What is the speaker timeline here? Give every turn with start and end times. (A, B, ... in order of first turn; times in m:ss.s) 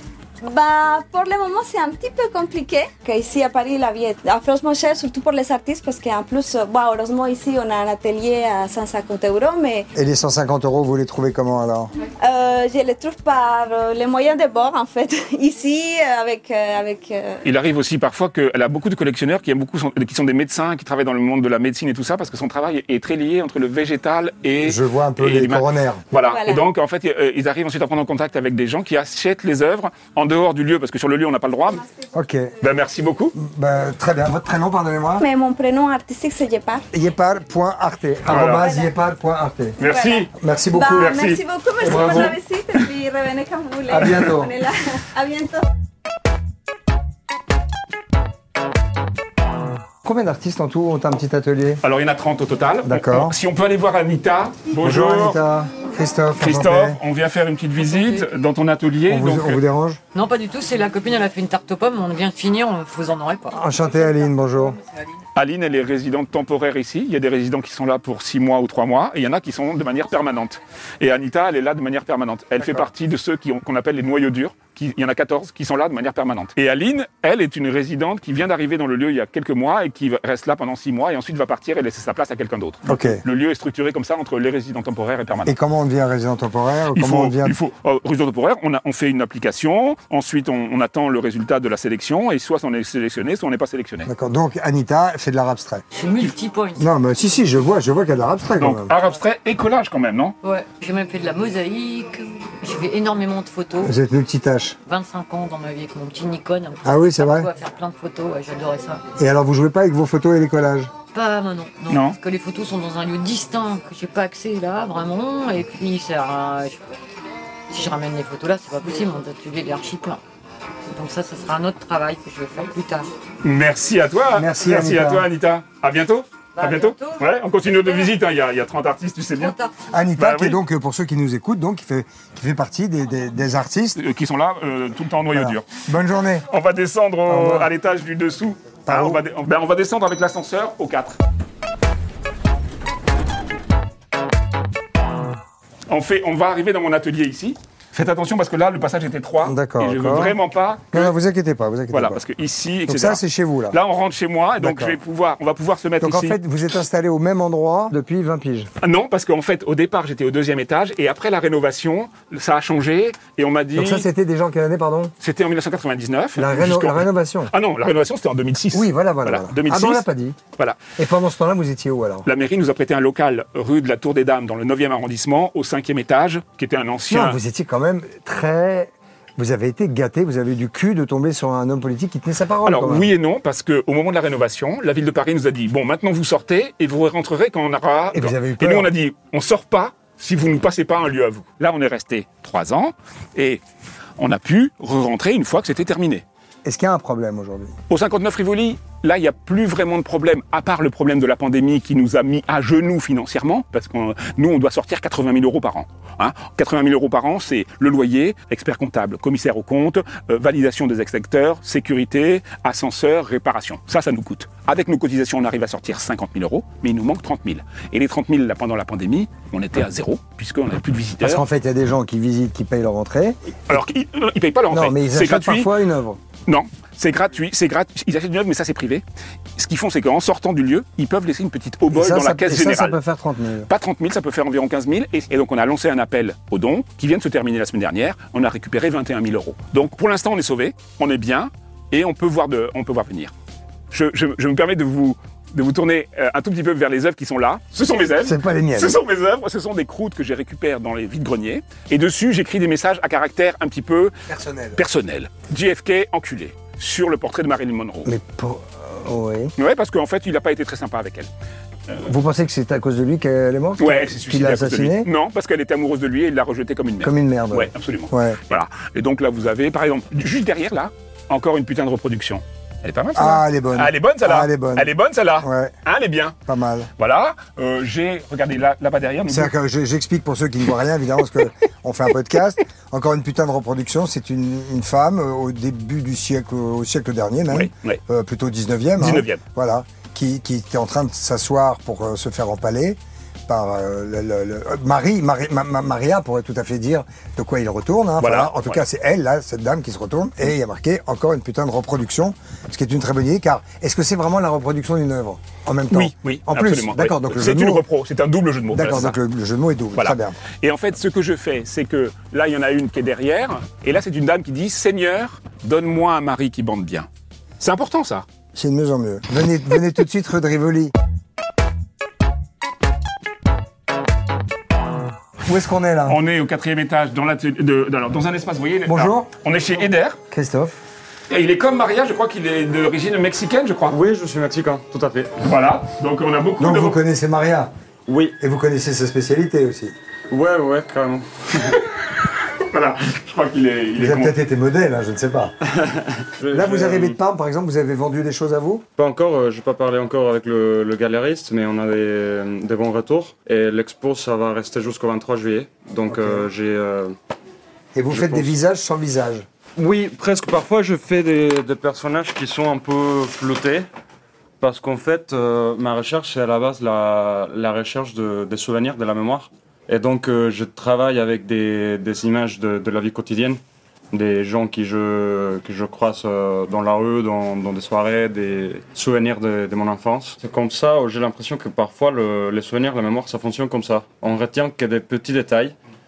0:00.4-0:09.9 A
0:10.0-0:11.9 B
0:12.2-0:17.4 A
0:17.4-0:31.8 C
0:24.6-0:26.0 B
0:26.3-0:26.6 A
0:32.1-0:32.5 B
0:32.6-0:33.4 C
0:33.4-0:35.2 B
0:35.2-0:36.8 A
0:36.9-0:39.8 B
0:38.3-0:38.7 C
0:38.3-0:38.9 A
0:39.8-0:40.3 C
0:39.8-0:45.7 A
0:40.4-0:41.1 B
0:40.9-0:42.4 C
0:41.8-0:42.4 B
0:43.9-0:44.5 B
0:50.0-0:51.8 B
0:51.8-0:55.4 C
0:52.8-0:53.4 B
0:54.8-0:57.0 B
0:56.4-0:59.6 C
0:57.8-0:58.2 D
0:59.1-1:00.0 B
1:00.1-1:03.6 D
1:03.5-1:04.8 B
1:05.4-1:25.6 C
1:22.9-1:23.2 B
1:25.5-1:27.6 B
1:26.9-1:34.1 C
1:34.1-1:35.8 B
1:35.9-1:36.9 D
1:36.8-1:38.9 B
1:38.6-1:40.4 C
1:40.4-1:43.9 D
1:43.8-1:44.8 B
1:44.9-1:49.0 D
1:46.8-1:47.5 B
1:49.2-1:50.9 B
1:51.1-1:56.8 D
1:51.9-1:52.2 C
1:57.7-2:00.2 D
2:00.9-2:03.1 D
2:03.4-2:09.6 C
2:04.3-2:05.3 B
2:06.6-2:07.3 D
2:07.8-2:08.1 D
2:09.4-2:09.7 D
2:09.9-2:14.0 B
2:10.2-2:10.6 C
2:14.0-2:15.8 C
2:15.3-2:16.5 B
2:16.5-2:21.2 C
2:17.3-2:17.7 B
2:18.9-2:19.2 B
2:25.9-2:31.1 C
2:29.4-2:30.4 B
2:30.9-2:32.2 B
2:31.9-2:36.4 C
2:32.9-2:33.8 B
2:34.6-2:35.0 B
2:36.0-2:38.7 B
2:38.8-2:44.1 C
2:43.8-2:45.1 B
2:45.2-2:50.0 C
2:46.4-2:47.5 B
2:48.7-2:50.4 B
2:51.0-2:52.3 B
2:52.2-2:57.4 C
2:57.1-3:03.1 B
3:02.7-3:13.6 C
3:08.1-3:08.9 B
3:14.2-3:16.2 C
3:16.6-3:17.7 B
3:17.9-3:41.4 C
3:41.2-3:43.4 B
3:43.7-3:45.7 C
3:44.7-3:46.2 B
3:46.5-3:49.0 C
3:49.6-3:53.0 C
3:51.9-3:53.7 B
3:53.7-4:03.3 C
4:03.9-4:14.1 C
4:08.2-4:09.0 B
4:14.3-4:14.8 B
4:14.8-4:18.1 C
4:18.0-4:19.5 B
4:19.6-4:21.3 C
4:22.0-4:25.1 B
4:23.8-4:36.4 C
4:27.0-4:28.4 B
4:33.2-4:35.7 B
4:36.5-4:36.9 B
4:37.0-4:39.5 C
4:39.3-5:07.8 B
4:47.5-4:48.0 C
4:49.0-4:49.4 C
4:58.2-4:58.8 C
5:05.9-5:09.2 C
5:08.7-5:10.4 B
5:10.0-5:17.1 C
5:17.6-5:18.2 C
5:18.6-5:20.9 B
5:25.5-5:26.2 B
5:26.1-5:30.2 C
5:28.9-5:29.3 B
5:30.3-5:30.8 B
5:31.3-5:34.0 C
5:33.9-5:35.4 E
5:35.4-5:37.0 C
5:36.6-5:37.7 B
5:38.1-5:38.4 E
5:38.4-5:40.0 B
5:40.3-5:41.3 E
5:42.6-5:44.3 C
5:44.0-5:45.5 B
5:45.7-5:47.2 E
5:46.5-5:48.8 B
5:49.0-5:57.2 E
5:56.1-5:56.4 B
5:58.0-5:59.5 B
5:58.1-5:58.5 E
5:59.8-6:03.8 E
6:04.6-6:13.6 E
6:14.1-6:25.8 E